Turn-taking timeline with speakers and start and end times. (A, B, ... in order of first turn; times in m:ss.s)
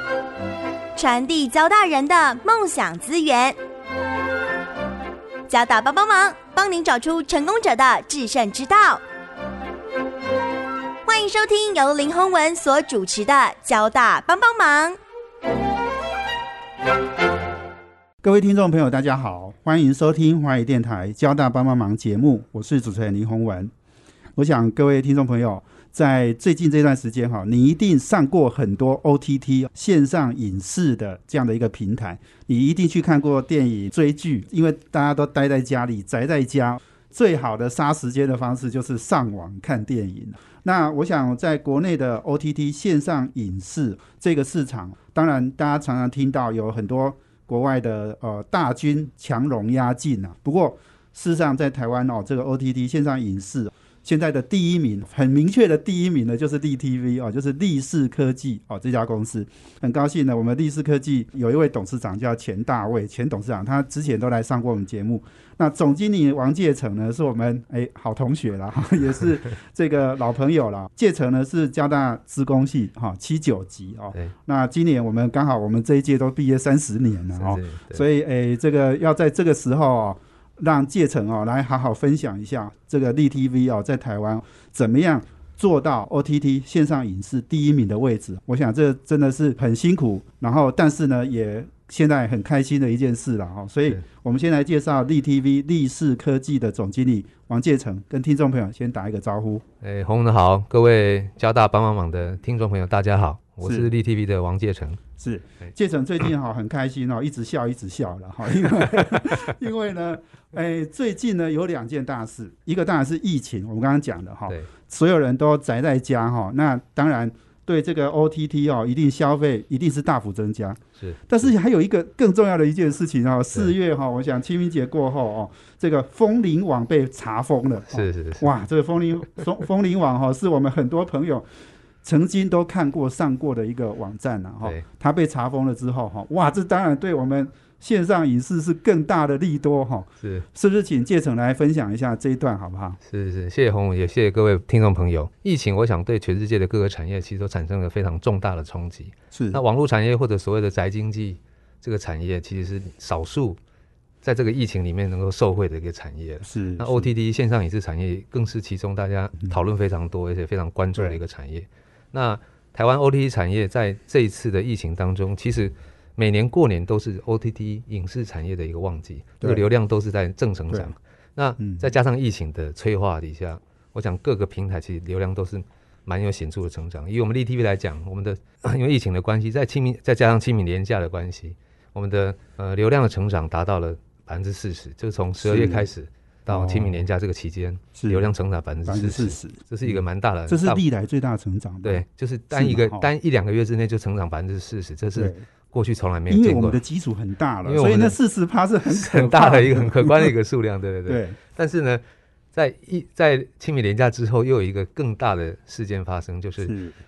0:01.0-0:03.6 A
0:05.5-0:09.0 A
0:11.0-0:15.0 A
0:18.2-0:23.7 B
0:24.4-1:39.6 B
1:17.3-1:18.0 C
1:39.8-1:45.0 C
1:45.2-2:11.5 B
1:48.9-1:49.3 C
2:07.9-2:08.5 C
2:12.0-2:23.0 B
2:23.0-2:33.6 C
2:29.3-2:29.6 B
2:34.2-3:10.8 C
2:36.4-2:37.1 B
2:49.4-2:49.7 B
2:51.6-2:51.9 B
3:05.4-3:05.9 B
3:06.5-3:07.0 B
3:07.9-3:08.3 B
3:08.8-3:13.0 B
3:11.8-3:16.8 C
3:15.1-3:15.4 B
3:16.3-3:20.3 B
3:17.6-3:18.2 C
3:18.8-3:22.0 C
3:21.1-3:21.4 B
3:22.5-3:26.7 C
3:26.6-3:27.0 B